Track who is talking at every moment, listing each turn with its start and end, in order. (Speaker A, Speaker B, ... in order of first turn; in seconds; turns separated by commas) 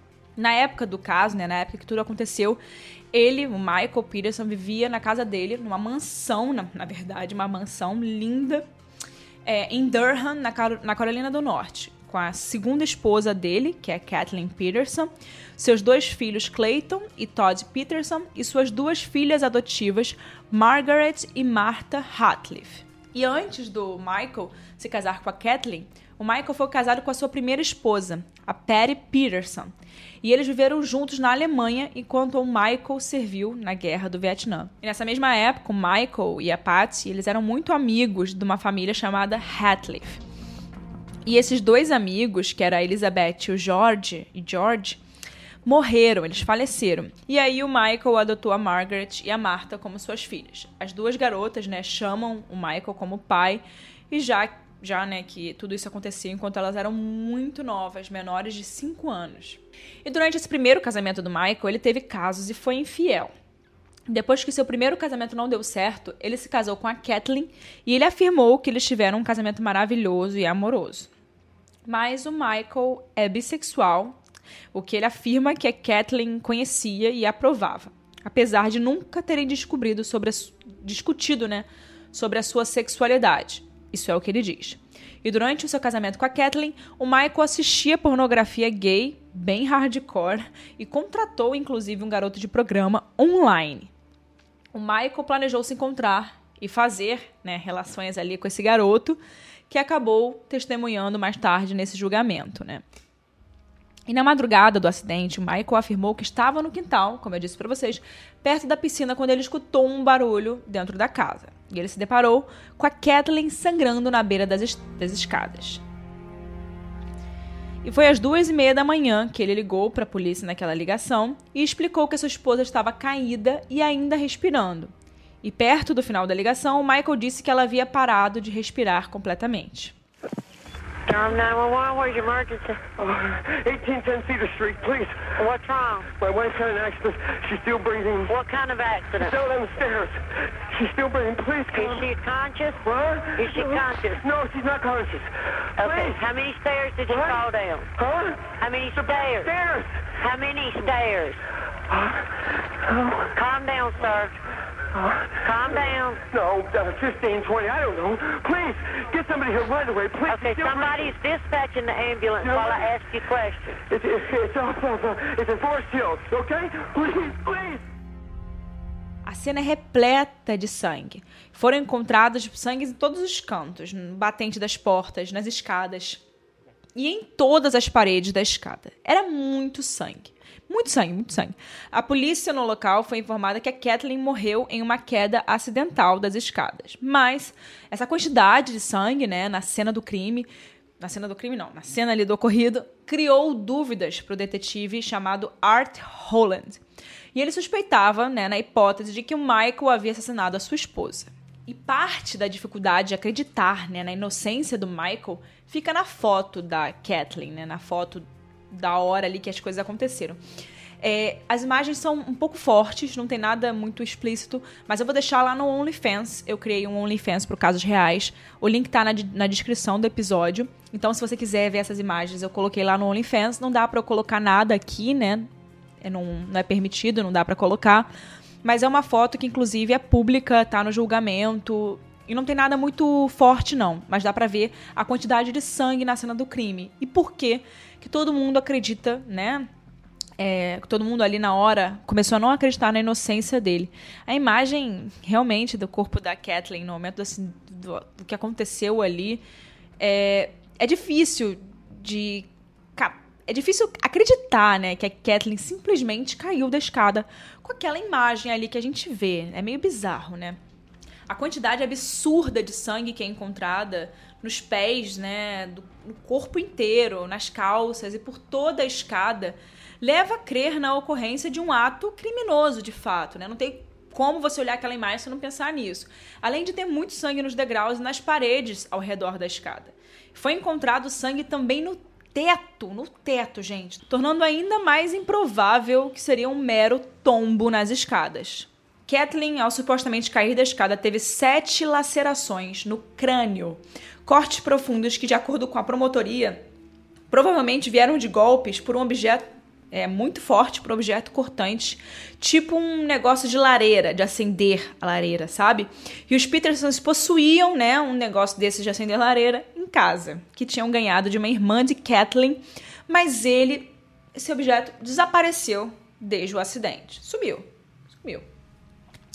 Speaker A: 0.4-2.6, Speaker A: 3.1-8.6, Speaker A: 9.4-40.2, Speaker A: 41.2-45.0, Speaker A: 45.6-63.3, Speaker A: 64.1-71.1, Speaker A: 71.8-74.2, Speaker A: 74.7-93.9, Speaker A: 94.7-102.8, Speaker A: 104.1-115.8, Speaker A: 117.8-124.9, Speaker A: 125.4-129.9, Speaker B: 131.1-132.8, Speaker C: 132.9-135.3, Speaker B: 135.4-136.1, Speaker C: 136.2-138.3, Speaker B: 138.3-139.3, Speaker C: 139.2-142.1, Speaker B: 141.7-142.8, Speaker C: 142.8-146.2, Speaker B: 143.3-144.2, Speaker B: 145.8-147.9, Speaker C: 147.1-147.4, Speaker C: 147.9-150.1, Speaker B: 148.6-149.5, Speaker B: 150.2-151.4, Speaker C: 151.9-152.2, Speaker C: 152.8-153.3, Speaker B: 153.3-154.3, Speaker C: 154.9-161.1, Speaker B: 155.4-156.2, Speaker B: 160.3-163.7, Speaker C: 162.4-162.9, Speaker C: 163.7-167.8, Speaker A: 169.2-176.2, Speaker A: 176.9-190.5, Speaker A: 191.0-196.8, Speaker A: 197.3-210.4, Speaker A: 211.0-225.5, Speaker A: 226.0-228.1, Speaker A: 228.6-239.7, Speaker A: 240.4-249.4, Speaker A: 250.0-260.6, Speaker A: 261.3-296.6, Speaker A: 297.3-317.6, Speaker A: 318.2-318.4